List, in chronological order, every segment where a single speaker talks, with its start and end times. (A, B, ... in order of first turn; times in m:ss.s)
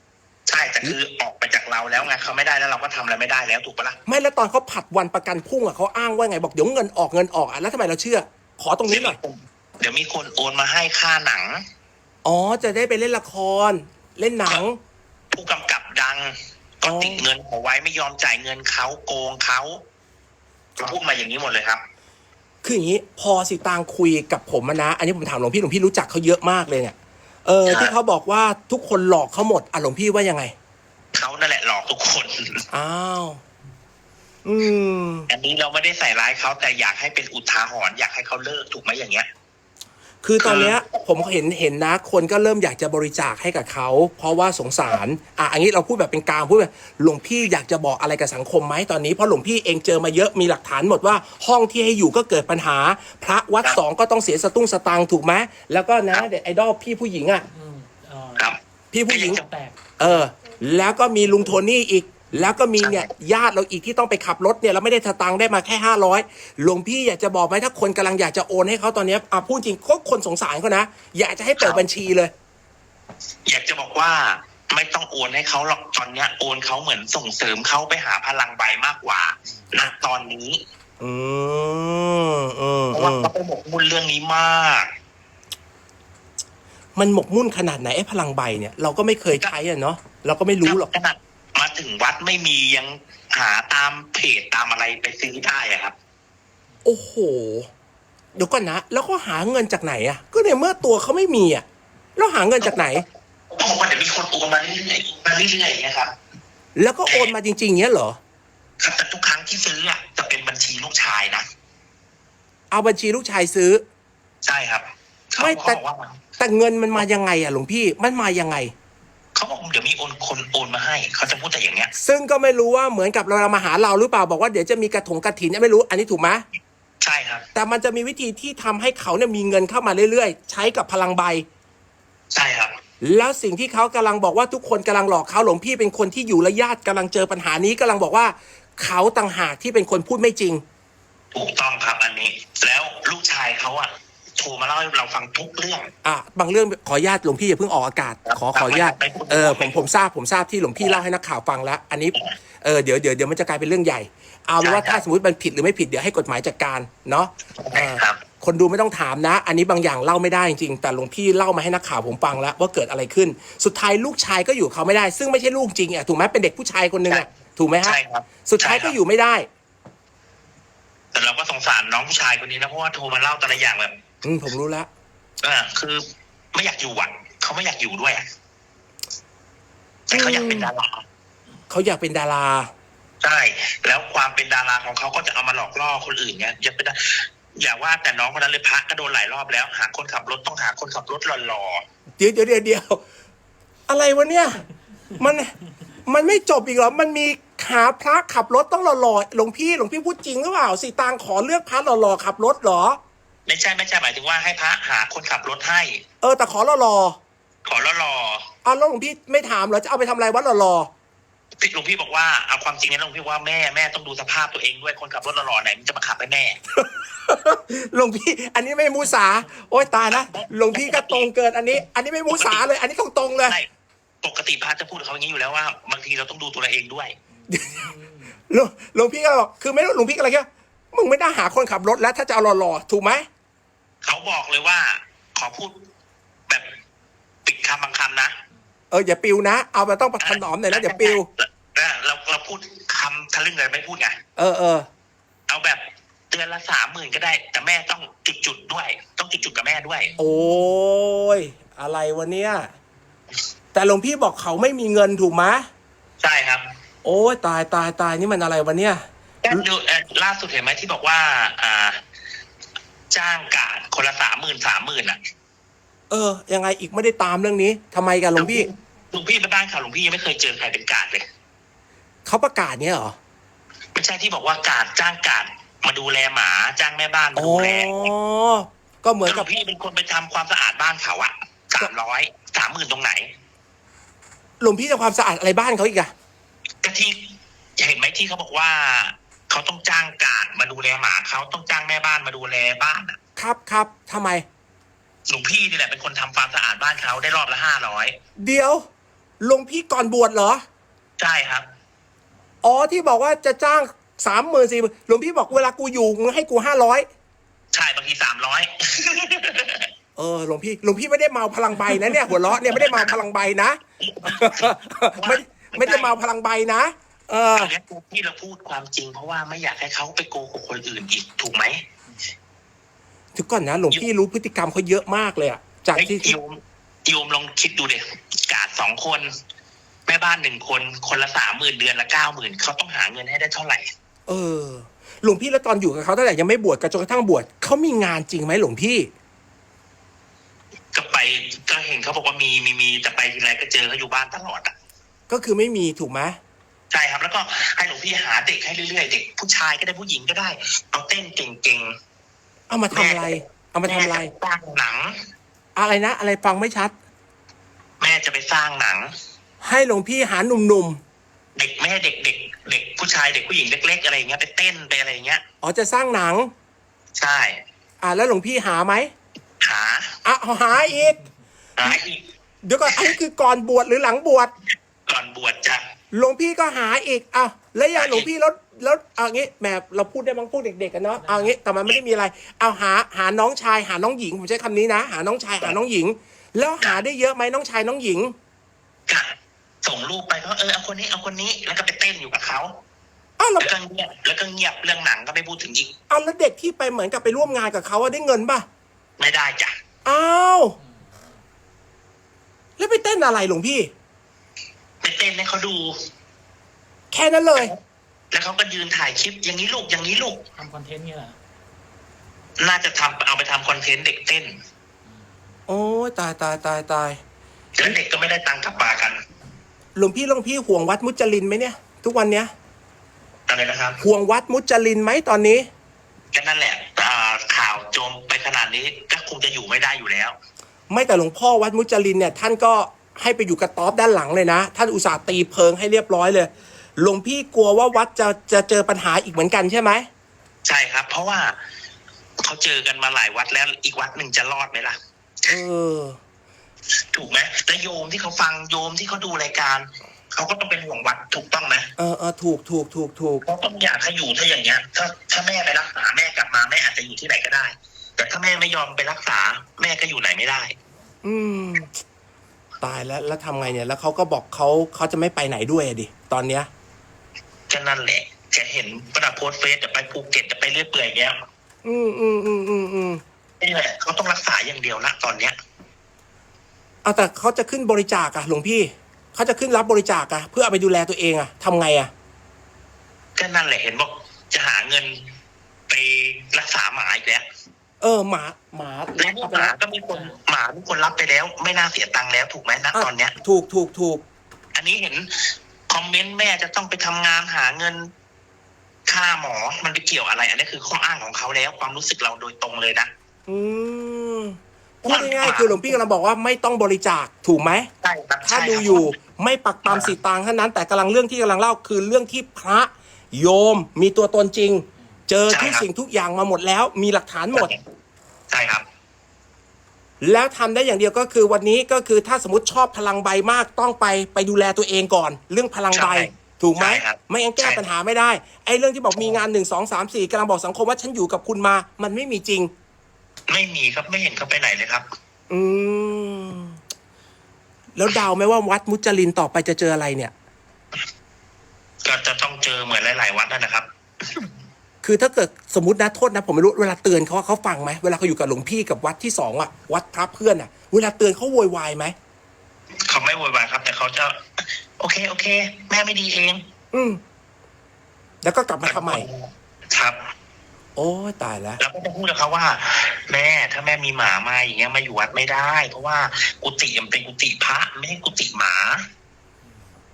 0:00.5-0:04.0 A
0:04.1-0:09.2 B
0:08.9-0:11.6 A
0:12.2-0:14.8 B
0:15.3-0:19.8 A
0:16.8-0:17.2 B
0:20.8-0:21.8 A
0:22.6-0:30.5 B
0:27.6-0:27.9 A
0:31.1-0:32.6 A
0:32.7-0:33.4 B
0:34.4-0:35.3 B
0:35.3-0:39.3 A
0:40.2-0:57.4 B
0:40.4-0:40.8 A
0:57.5-0:58.5 C
0:58.9-0:59.4 B
0:59.1-0:59.4 A
0:59.3-1:00.3 C
1:00.0-1:12.3 B
1:02.8-1:03.1 A
1:11.6-1:11.8 A
1:13.4-1:20.6 A
1:21.0-1:23.3 B
1:22.9-1:24.9 A
1:27.0-1:30.9 B
1:30.6-1:35.9 A
1:36.8-1:37.7 B
1:38.4-1:41.6 B
1:42.2-1:43.0 B
1:42.6-1:46.1 A
1:46.8-1:48.2 B
1:47.1-1:47.3 A
1:48.8-1:51.4 A
1:52.7-1:53.8 B
1:54.4-1:56.2 A
1:55.4-1:55.8 B
1:56.4-1:58.7 B
1:59.3-2:01.9 A
2:01.9-2:06.4 B
2:07.0-2:07.4 A
2:07.5-2:11.4 B
2:12.3-2:12.7 A
2:13.0-2:20.6 B
2:21.3-2:25.9 A
2:26.0-2:49.5 B
2:28.2-2:29.8 A
2:34.6-2:35.0 A
2:37.6-2:38.2 A
2:47.8-2:49.0 A
2:51.1-2:53.9 A
2:54.2-2:54.9 B
2:55.4-2:58.2 A
3:00.1-3:01.0 A
3:00.1-3:00.7 B
3:01.7-3:02.7 B
3:03.2-3:11.8 A
3:12.2-3:13.0 B
3:13.9-3:14.6 B
3:15.2-3:15.5 B
3:16.0-3:23.0 B
3:23.4-3:26.0 A
3:26.2-3:27.2 B
3:27.6-3:28.4 A
3:28.6-3:30.9 B
3:31.6-3:36.6 A
3:36.8-3:43.6 B
3:40.1-3:41.3 A
3:42.3-3:42.7 A
3:44.2-3:47.1 A
3:47.4-3:48.3 C
3:47.5-3:47.9 B
3:48.5-3:53.2 B
3:54.0-3:55.8 A
3:57.4-3:58.4 A
3:58.9-4:01.3 B
4:00.2-4:04.2 A
4:04.4-4:04.9 B
4:05.5-4:10.1 A
4:10.2-4:12.7 B
4:13.7-4:15.7 B
4:16.2-4:16.7 A
4:17.0-4:19.6 B
4:19.4-4:22.0 A
4:23.1-4:25.2 A
4:26.1-4:28.7 B
4:28.4-4:31.2 A
4:32.2-4:33.1 B
4:33.9-4:38.1 A
4:37.4-4:39.5 B
4:39.2-4:43.3 A
4:44.6-4:46.1 B
4:46.8-4:53.2 A
4:53.4-4:54.4 B
4:55.3-4:58.2 A
4:58.4-4:58.8 B
4:59.4-5:00.6 B
5:01.2-5:01.7 A
5:02.6-5:07.0 B
5:07.7-5:09.9 A
5:10.2-5:17.7 B
5:12.7-5:13.2 A
5:14.0-5:16.1 A
5:17.5-5:21.8 A
5:23.3-5:26.3 B
5:25.9-5:29.3 A
5:30.1-5:33.9 A
5:34.3-5:39.1 B
5:40.9-5:44.7 A
5:45.3-5:46.4 B
5:46.9-5:51.9 A
5:52.7-5:54.3 B
5:52.9-5:55.2 A
5:55.8-5:56.9 B
5:58.0-5:59.1 A
5:59.6-6:01.0 B
6:01.6-6:05.4 A
6:05.6-6:06.5 B
6:07.2-6:07.6 A
6:08.0-6:09.1 B
6:09.6-6:10.2 A
6:10.2-6:11.2 B
6:11.8-6:12.2 A
6:12.6-6:14.5 B
6:12.9-6:13.2 A
6:15.1-6:15.8 A
6:16.1-6:28.3 B
6:17.9-6:18.3 A
6:21.2-6:21.5 C
6:29.8-6:32.8 A
6:33.4-6:33.7 B
6:33.6-6:35.9 A
6:36.1-6:38.6 B
6:39.2-6:39.7 A
6:40.0-6:40.8 B
6:40.8-6:41.3 C
6:42.8-6:43.9 B
6:45.0-6:45.9 A
6:47.1-6:47.7 B
6:48.3-6:50.4 A
6:50.6-6:51.4 C
6:52.6-6:54.5 A
6:55.1-6:55.3 C
6:55.7-6:57.2 B
6:57.8-6:59.2 A
7:00.0-7:02.5 B
7:03.5-7:04.0 A
7:04.0-7:05.7 B
7:06.3-7:10.4 A
7:10.9-7:20.1 B
7:20.6-7:21.6 A
7:22.4-7:25.6 A
7:25.5-7:26.2 B
7:27.1-7:31.9 A
7:32.0-7:33.4 B
7:33.4-7:40.8 A
7:41.2-7:42.0 B
7:42.8-7:46.7 B
7:47.7-7:51.4 A
7:51.8-7:53.2 B
7:53.6-7:55.6 A
7:57.0-8:02.1 B
8:03.4-8:05.2 A
8:05.9-8:07.4 A
8:08.0-8:09.7 B
8:09.2-8:13.3 A
8:12.9-8:14.2 B
8:14.7-8:18.1 A
8:19.1-8:23.1 A
8:23.5-8:27.9 B
8:25.0-8:26.0 A
8:28.0-8:29.1 A
8:28.4-8:37.7 B
8:29.8-8:30.1 A
8:35.5-8:35.9 A
8:37.5-8:37.8 A
8:38.5-8:38.8 A
8:40.2-8:52.7 B
8:45.9-8:47.8 A
8:49.2-8:49.4 A
8:53.5-8:55.0 A
8:55.5-8:56.8 B
8:57.9-9:00.3 B
9:02.0-9:04.5 A
9:05.0-9:12.1 B
9:13.1-9:14.4 A
9:15.0-9:16.6 A
9:16.9-9:17.2 B
9:18.4-9:19.2 B
9:18.8-9:20.3 A
9:21.0-9:21.8 B
9:21.8-9:29.0 A